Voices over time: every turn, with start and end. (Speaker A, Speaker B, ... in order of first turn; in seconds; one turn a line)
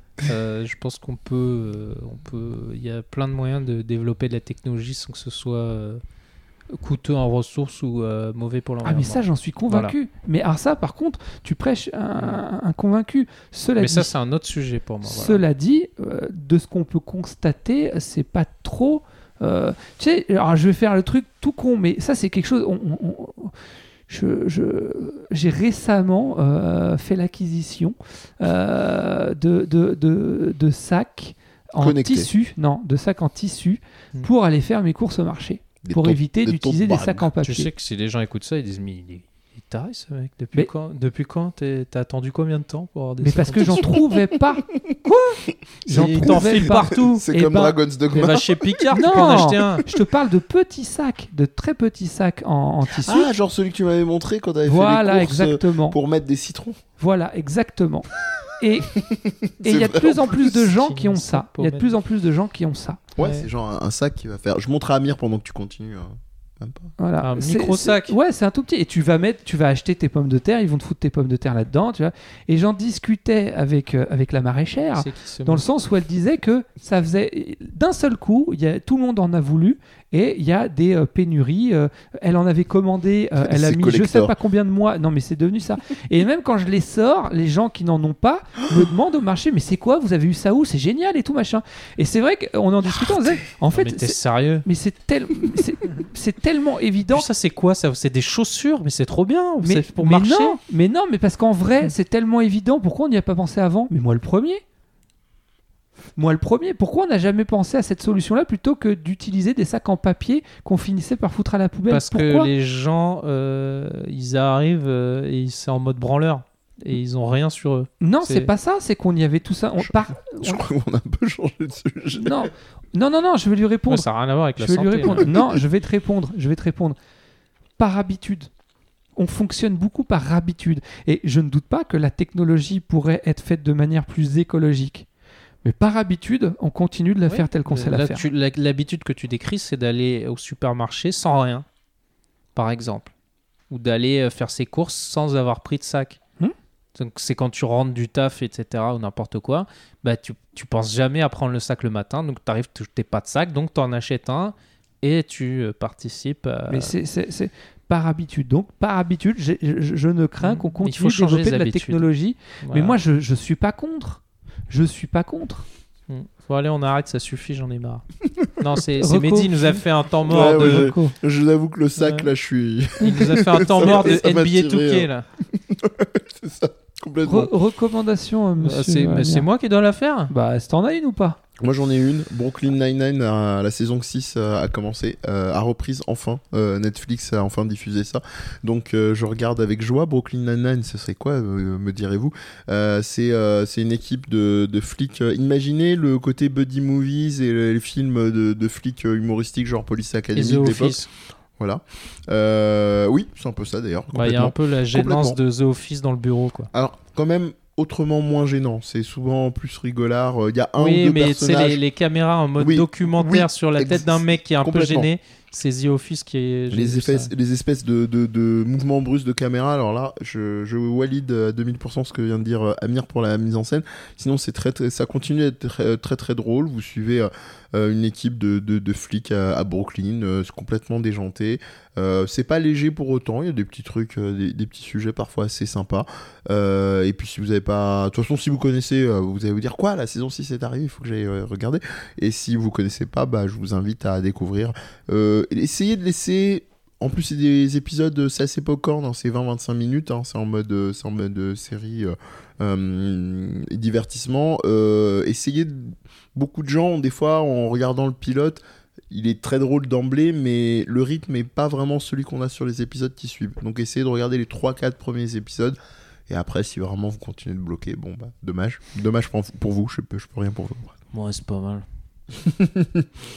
Speaker A: 0.2-6.0
Speaker A: 6.7-9.9
Speaker B: 8.8-14.1
Speaker A: 12.2-12.4
Speaker A: 13.8-15.4
Speaker B: 15.0-23.6
Speaker B: 24.1-37.7
Speaker C: 31.8-32.3
Speaker C: 35.8-37.3
Speaker A: 37.4-44.0
Speaker B: 43.2-47.8
Speaker C: 45.9-49.0
Speaker A: 45.9-47.3
Speaker A: 48.1-49.8
Speaker B: 48.9-53.3
Speaker C: 53.0-56.8
Speaker B: 54.6-56.0
Speaker B: 57.0-58.9
Speaker C: 58.9-60.5
Speaker B: 59.6-63.0
Speaker A: 60.5-61.9
Speaker C: 63.1-66.9
Speaker A: 63.2-63.5
Speaker B: 67.0-97.2
Speaker A: 67.2-68.2
Speaker A: 74.9-75.6
Speaker C: 83.4-84.3
Speaker A: 93.5-94.7
Speaker A: 97.1-100.6
Speaker B: 99.6-104.6
Speaker B: 106.2-112.5
Speaker A: 111.9-118.5
Speaker B: 118.0-120.6
Speaker C: 119.8-122.5
Speaker B: 122.1-127.0
Speaker A: 123.9-125.2
Speaker C: 125.1-125.6
Speaker B: 127.8-128.5
Speaker B: 129.2-135.1
Speaker B: 135.6-138.2
Speaker A: 137.3-141.7
Speaker A: 142.5-143.1
Speaker A: 143.7-146.2
Speaker A: 146.9-156.9
Speaker B: 156.7-165.7
Speaker A: 160.4-162.1
Speaker A: 162.6-163.0
Speaker A: 166.1-170.9
Speaker B: 169.0-169.8
Speaker C: 170.2-177.5
Speaker B: 170.3-171.1
Speaker A: 172.0-172.3
Speaker A: 173.0-175.2
Speaker B: 177.2-179.5
Speaker A: 178.6-180.3
Speaker B: 180.3-181.4
Speaker C: 181.6-201.0
Speaker A: 200.3-201.1
Speaker C: 201.6-205.4
Speaker A: 204.1-206.7
Speaker C: 206.7-211.8
Speaker A: 210.8-217.3
Speaker C: 212.6-215.1
Speaker C: 216.7-265.8
Speaker C: 266.3-270.9
Speaker A: 271.1-271.8
Speaker C: 272.4-273.1